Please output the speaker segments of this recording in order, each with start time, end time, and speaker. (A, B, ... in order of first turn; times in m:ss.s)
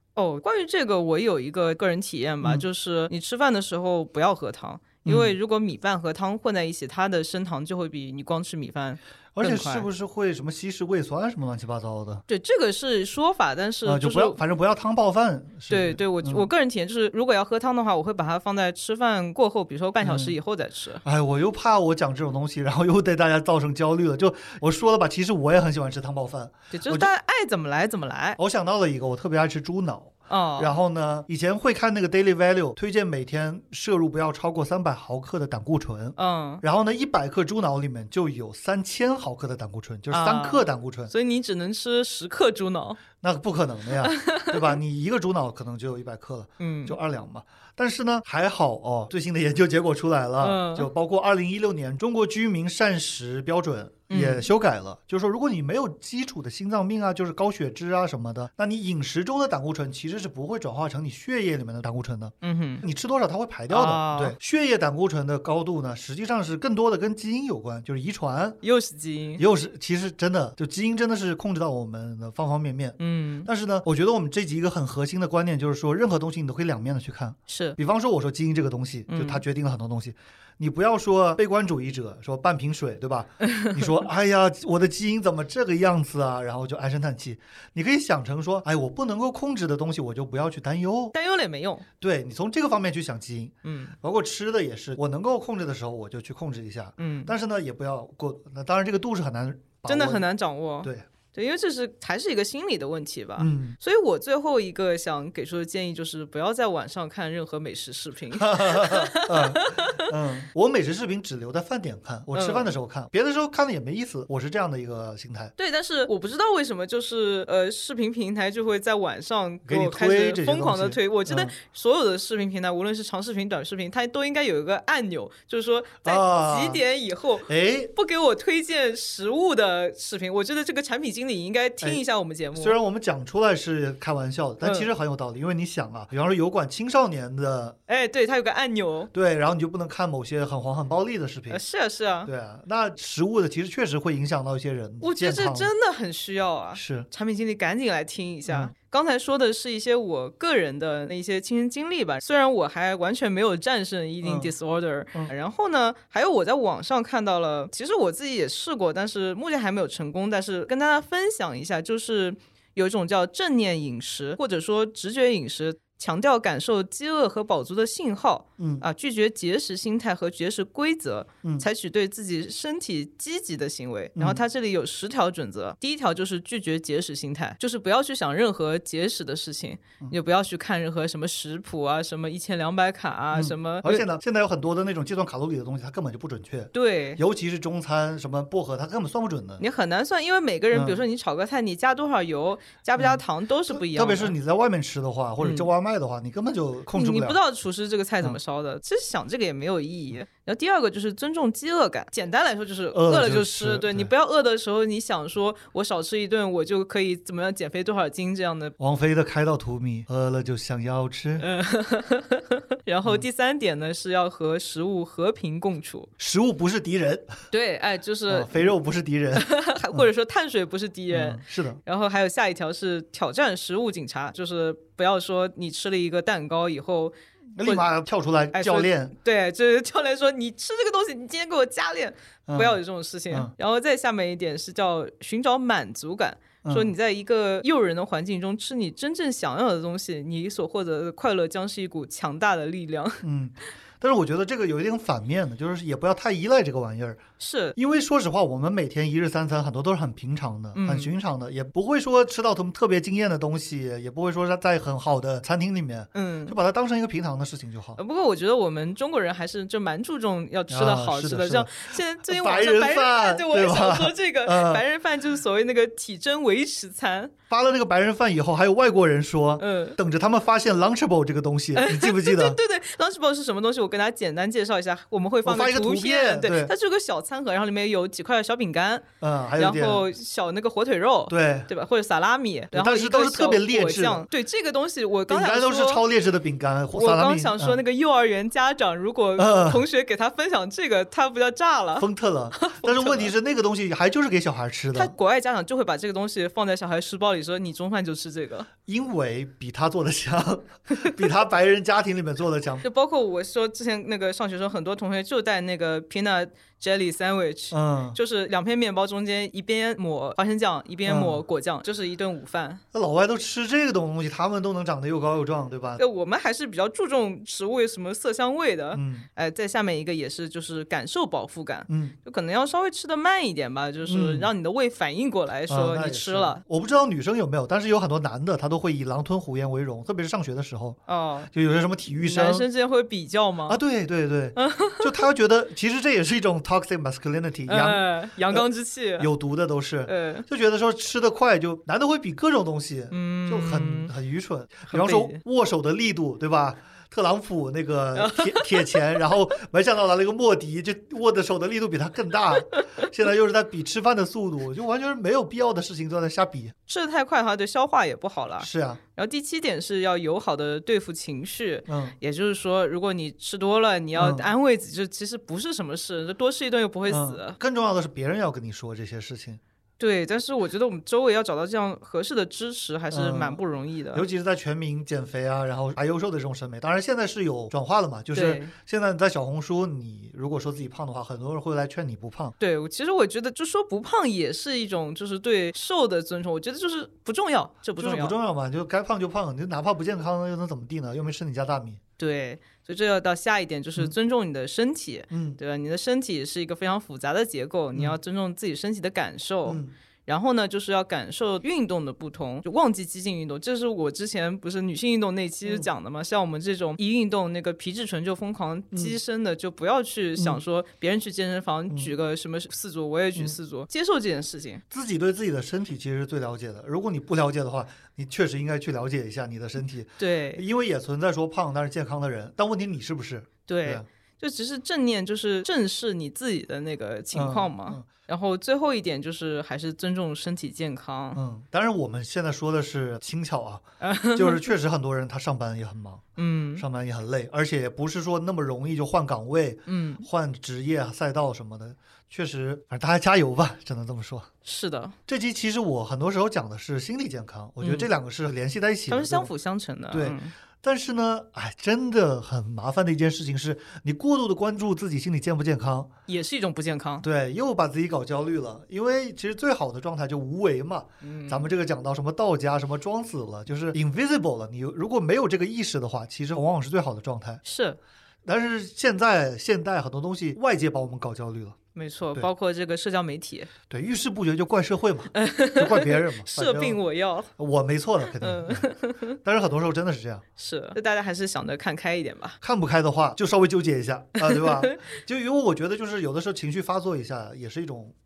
0:00.1-0:09.9 A
0:05.0-0:05.3 B
0:09.4-0:12.2 B
0:12.3-0:14.4 A
0:13.8-0:16.5 B
0:15.7-0:21.0 A
0:20.0-0:20.4 B
0:21.0-0:27.1 B
0:26.7-0:28.4 A
0:28.4-0:41.1 B
0:30.3-0:30.7 A
0:36.2-0:36.6 A
0:40.1-0:43.0 A
0:43.2-1:08.6 B
0:44.0-0:44.7 A
0:46.6-0:46.9 A
0:50.4-0:50.9 A
0:54.1-0:54.5 A
1:02.4-1:02.8 A
1:03.7-1:04.4 A
1:08.6-1:09.4 A
1:09.4-1:31.1 B
1:13.0-1:13.5 A
1:17.5-1:17.8 A
1:19.1-1:19.4 A
1:23.4-1:23.9 A
1:31.1-1:31.8 A
1:32.0-1:40.2 B
1:33.6-1:33.9 A
1:37.0-1:37.3 A
1:39.9-1:50.1 A
1:43.4-1:43.8 B
1:48.3-1:55.5 B
1:52.3-1:52.7 A
1:55.6-2:12.8 A
1:59.6-2:01.5 B
2:06.0-2:06.8 B
2:07.5-2:07.9 B
2:12.6-2:17.8 B
2:14.6-2:14.9 A
2:17.9-2:19.1 A
2:19.1-2:21.6 B
2:21.5-2:22.3 A
2:22.2-2:25.7 B
2:25.0-3:04.0 A
2:26.7-2:27.1 B
2:28.5-2:28.7 B
2:34.2-2:34.5 B
2:48.6-2:48.8 B
2:54.2-2:54.4 B
3:03.3-3:09.6 B
3:06.7-3:07.2 A
3:09.6-3:14.3 A
3:10.7-3:11.0 B
3:13.0-3:17.4 B
3:15.4-3:15.7 A
3:16.9-3:28.7 A
3:22.9-3:24.1 B
3:28.8-3:31.4 B
3:31.4-3:36.1 A
3:36.2-3:37.3 B
3:37.5-3:38.7 A
3:38.3-3:40.0 B
3:39.3-3:47.8 A
3:41.1-3:41.8 B
3:47.6-3:49.1 B
3:48.5-4:03.2 A
3:52.5-3:52.8 B
3:56.6-3:56.9 B
4:03.2-4:07.2 B
4:07.4-4:07.8 A
4:07.8-4:18.0 B
4:10.7-4:11.1 A
4:16.1-4:16.6 A
4:18.0-4:27.3 A
4:20.7-4:24.8 B
4:27.5-4:32.6 B
4:29.6-4:30.0 A
4:31.7-4:39.0 A
4:35.4-4:36.7 B
4:39.2-4:40.0 B
4:39.6-4:46.0 A
4:41.3-4:41.7 B
4:42.7-4:44.2 B
4:45.3-4:47.8 B
4:46.9-4:53.3 A
4:49.4-4:49.8 B
4:52.0-4:55.1 B
4:54.9-4:58.7 A
4:58.8-5:02.8 B
5:02.8-5:12.8 A
5:07.7-5:08.2 B
5:11.0-5:11.4 B
5:12.9-5:16.0 B
5:16.0-5:26.6 A
5:18.9-5:19.3 B
5:21.9-5:22.2 B
5:24.1-5:24.5 B
5:25.7-5:31.0 B
5:31.1-5:31.5 A
5:31.5-5:32.7 B
5:32.2-5:33.8 A
5:33.7-5:38.6 B
5:34.6-5:35.2 A
5:37.7-5:39.3 A
5:39.2-5:56.7 B
5:40.1-5:40.4 A
5:43.1-5:44.1 A
5:44.9-5:45.4 A
5:48.1-5:49.2 A
5:52.8-5:53.0 A
5:56.9-6:07.6 A
5:58.6-5:59.0 B
6:01.9-6:02.2 B
6:04.2-6:04.5 B
6:07.1-6:09.6 B
6:10.0-6:14.2 A
6:13.1-6:13.6 B
6:14.1-6:22.5 B
6:18.3-6:18.7 A
6:22.6-6:28.4 A
6:28.0-6:32.0 B
6:32.2-6:54.8 A
6:35.3-6:35.6 B
6:39.6-6:39.9 B
6:54.9-7:04.0 B
7:00.2-7:00.6 A
7:03.6-7:11.4 A
7:07.3-7:08.1 B
7:11.3-7:13.8 B
7:14.0-7:14.7 A
7:14.3-7:16.2 B
7:16.4-7:16.8 A
7:16.8-7:24.5 B
7:19.9-7:20.2 A
7:24.6-7:25.2 A
7:25.3-7:29.5 B
7:27.8-7:28.1 A
7:29.1-7:30.5 A
7:30.1-7:36.1 B
7:36.3-7:37.2 A
7:37.2-7:47.6 B
7:41.2-7:41.7 A
7:47.6-7:48.0 A
7:48.4-7:51.8 B
7:51.9-7:53.7 A
7:53.9-7:57.0 B
7:55.3-7:57.5 A
7:57.6-7:58.9 B
7:58.4-7:59.4 A
7:59.4-8:00.4 B
8:00.6-8:02.6 A
8:02.6-8:08.1 B
8:04.4-8:05.0 A